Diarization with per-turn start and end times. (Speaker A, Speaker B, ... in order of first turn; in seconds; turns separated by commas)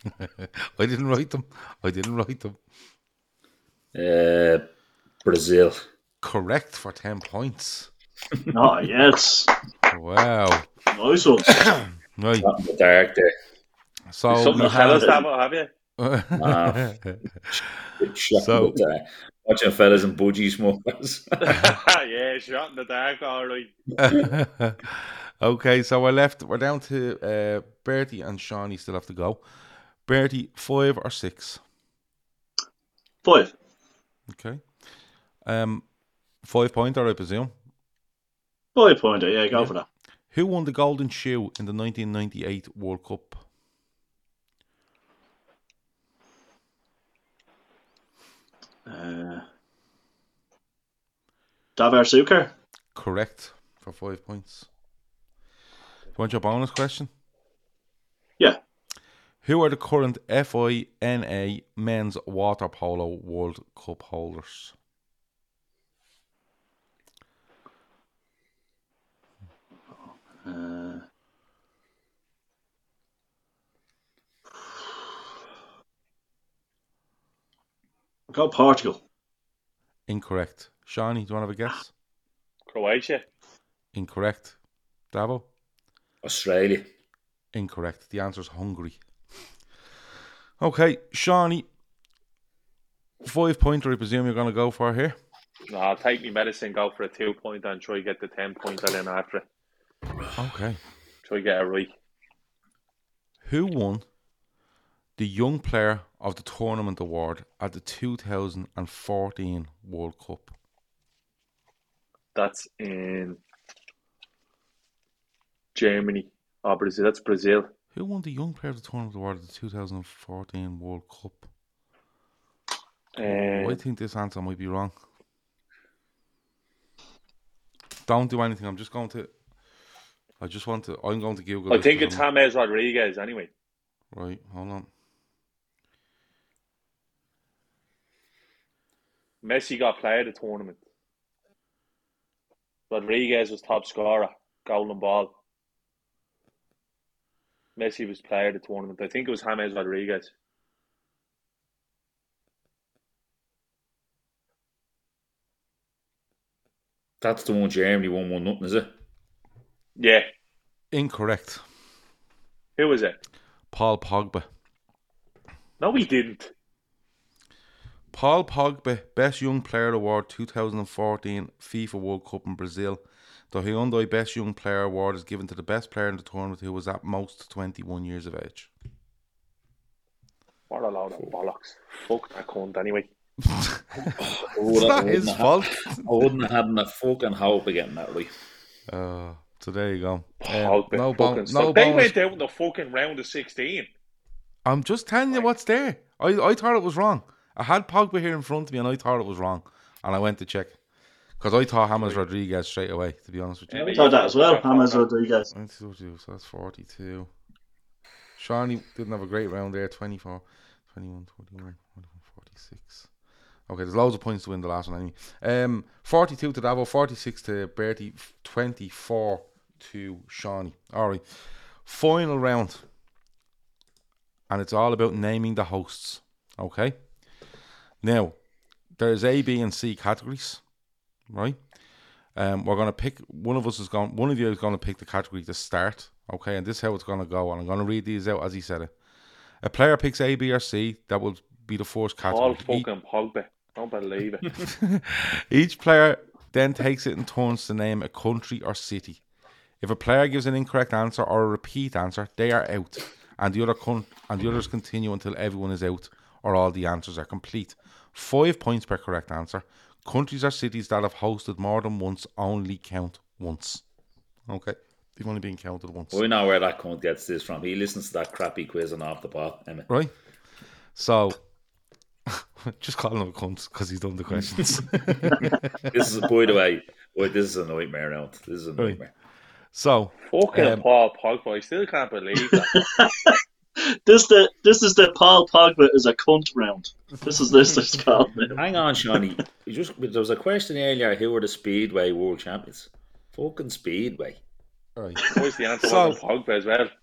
Speaker A: 0.2-2.6, Speaker B: 3.9-4.7, Speaker B: 5.2-5.8, Speaker A: 6.2-7.9, Speaker C: 8.5-9.5, Speaker A: 9.9-10.7, Speaker C: 10.9-11.6, Speaker A: 11.7-12.5, Speaker B: 12.4-13.3, Speaker A: 14.1-15.1, Speaker D: 14.3-15.7, Speaker C: 14.5-15.2, Speaker A: 16.0-17.6, Speaker B: 16.4-16.9, Speaker B: 17.5-21.6, Speaker A: 18.3-18.8, Speaker D: 21.4-23.7, Speaker A: 24.0-29.4, Speaker A: 30.1-31.6, Speaker C: 33.2-33.5, Speaker A: 34.3-34.6, Speaker A: 35.5-35.9, Speaker A: 36.4-37.5, Speaker C: 38.8-39.9, Speaker A: 40.3-43.4, Speaker C: 48.9-49.4, Speaker C: 51.8-52.5, Speaker A: 53.0-54.7, Speaker A: 56.2-57.1, Speaker A: 59.4-64.7, Speaker C: 70.0-71.0, Speaker C: 78.3-79.0, Speaker A: 80.1-81.9, Speaker D: 82.7-83.2, Speaker A: 83.9-84.6, Speaker A: 85.1-85.5, Speaker B: 86.2-86.9, Speaker A: 87.5-89.0, Speaker A: 90.6-91.7, Speaker A: 93.2-95.2, Speaker D: 95.7-99.5, Speaker A: 100.4-100.8, Speaker D: 101.2-101.9, Speaker A: 103.4-104.0, Speaker A: 105.2-110.5, Speaker D: 112.3-113.4, Speaker D: 115.8-117.7, Speaker A: 117.9-121.5, Speaker D: 123.2-123.8, Speaker A: 123.2-124.9, Speaker A: 128.1-129.3, Speaker A: 130.4-132.2, Speaker D: 131.7-133.5, Speaker A: 134.1-134.9, Speaker D: 139.4-140.8, Speaker D: 142.9-145.3, Speaker D: 147.8-150.3, Speaker B: 157.2-158.9, Speaker D: 160.0-160.3, Speaker A: 160.9-161.6, Speaker D: 162.8-163.2, Speaker A: 163.7-164.5, Speaker D: 165.8-166.5, Speaker A: 168.1-178.7, Speaker D: 180.7-183.1, Speaker A: 183.4-186.2, Speaker B: 184.2-188.3, Speaker A: 188.9-192.2, Speaker D: 190.4-193.9, Speaker A: 194.7-200.8, Speaker A: 201.4-204.0, Speaker D: 203.7-205.1, Speaker C: 203.9-205.5, Speaker A: 205.5-207.3, Speaker A: 208.4-213.1, Speaker A: 213.7-222.8, Speaker A: 224.5-227.0, Speaker A: 228.0-228.3, Speaker A: 229.0-230.6, Speaker A: 231.3-231.6, Speaker A: 232.4-238.9, Speaker A: 239.6-242.9, Speaker D: 242.3-244.5, Speaker A: 244.6-249.2, Speaker A: 249.8-263.8, Speaker A: 264.5-266.2, Speaker B: 266.1-269.9, Speaker A: 270.9-271.4, Speaker A: 272.3-275.9, Speaker B: 274.4-279.1, Speaker A: 279.7-280.9, Speaker D: 280.3-282.8, Speaker C: 282.6-288.6, Speaker B: 288.5-294.4, Speaker A: 295.0-296.2, Speaker D: 295.3-296.9